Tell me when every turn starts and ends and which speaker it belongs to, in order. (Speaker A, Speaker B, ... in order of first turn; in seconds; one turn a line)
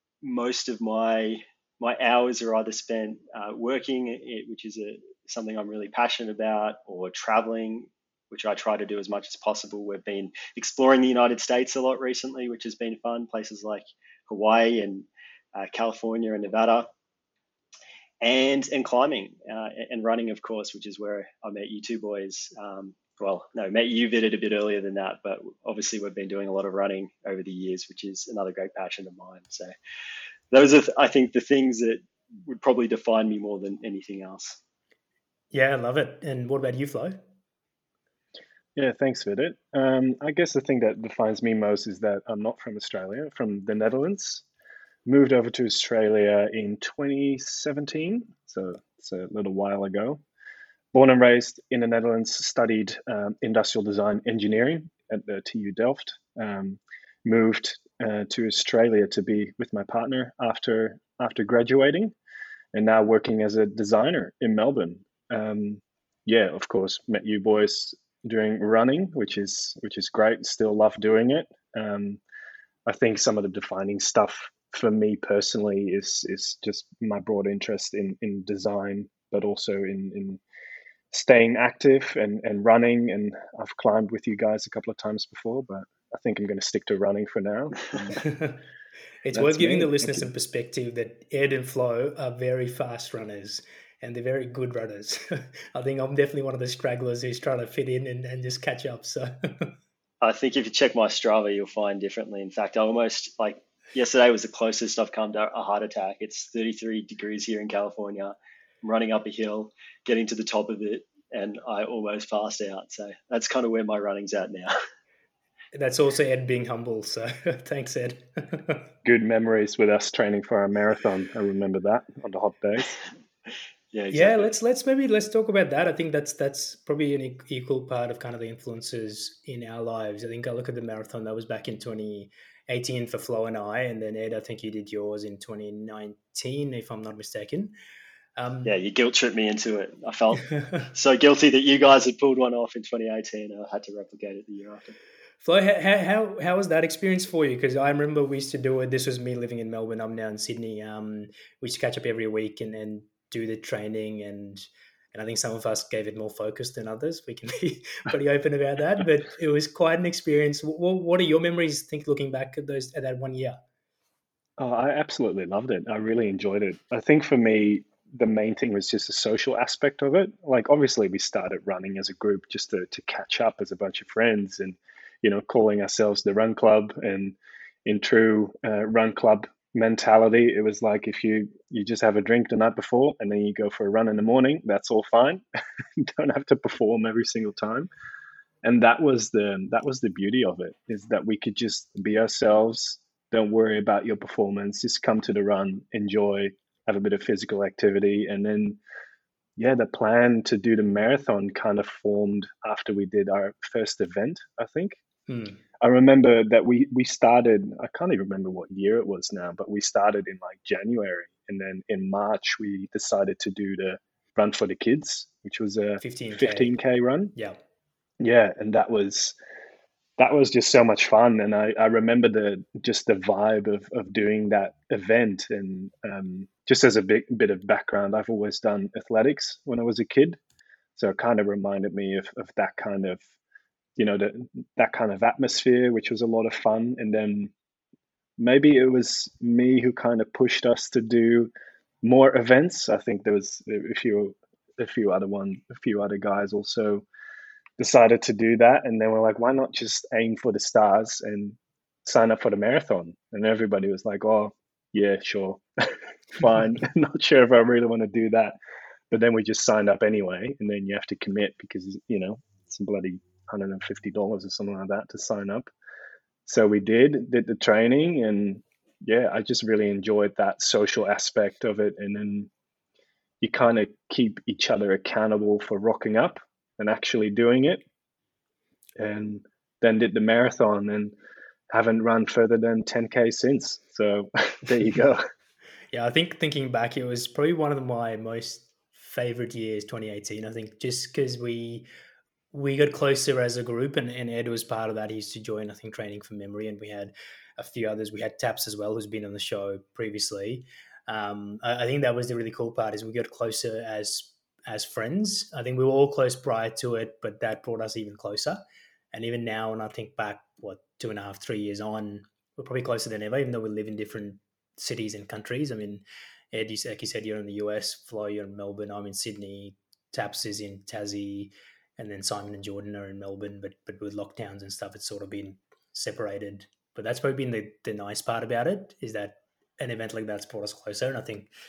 Speaker A: 0.2-16.9
Speaker A: 18.2-29.7
Speaker A: 30.5-34.6
Speaker B: 35.5-37.2
Speaker C: 38.8-44.4
Speaker C: 45.0-50.2
Speaker C: 50.9-62.1
Speaker C: 62.7-72.2
Speaker C: 72.8-80.4
Speaker C: 81.1-88.2
Speaker B: 88.2-88.6
Speaker B: 89.2-99.7
Speaker C: 89.3-90.3
Speaker A: 100.2-114.7
Speaker B: 115.7-118.9
Speaker C: 119.0-122.9
Speaker A: 123.9-124.5
Speaker B: 124.1-137.7
Speaker B: 138.4-138.7
Speaker A: 138.6-145.0
Speaker B: 145.4-163.6
Speaker C: 164.6-185.4
Speaker C: 186.0-187.9
Speaker C: 188.6-198.8
Speaker C: 199.6-205.0
Speaker B: 205.3-205.6
Speaker C: 205.8-217.3
Speaker B: 216.0-216.7
Speaker C: 218.2-219.3
Speaker C: 220.2-230.4
Speaker C: 230.9-233.2
Speaker C: 233.9-237.5
Speaker C: 238.4-241.5
Speaker C: 242.0-247.0
Speaker C: 247.8-258.5
Speaker C: 259.1-265.7
Speaker C: 266.4-272.5
Speaker C: 273.4-277.8
Speaker C: 279.0-281.1
Speaker C: 281.7-285.2
Speaker B: 285.9-291.9
Speaker B: 292.5-308.6
Speaker B: 309.1-331.5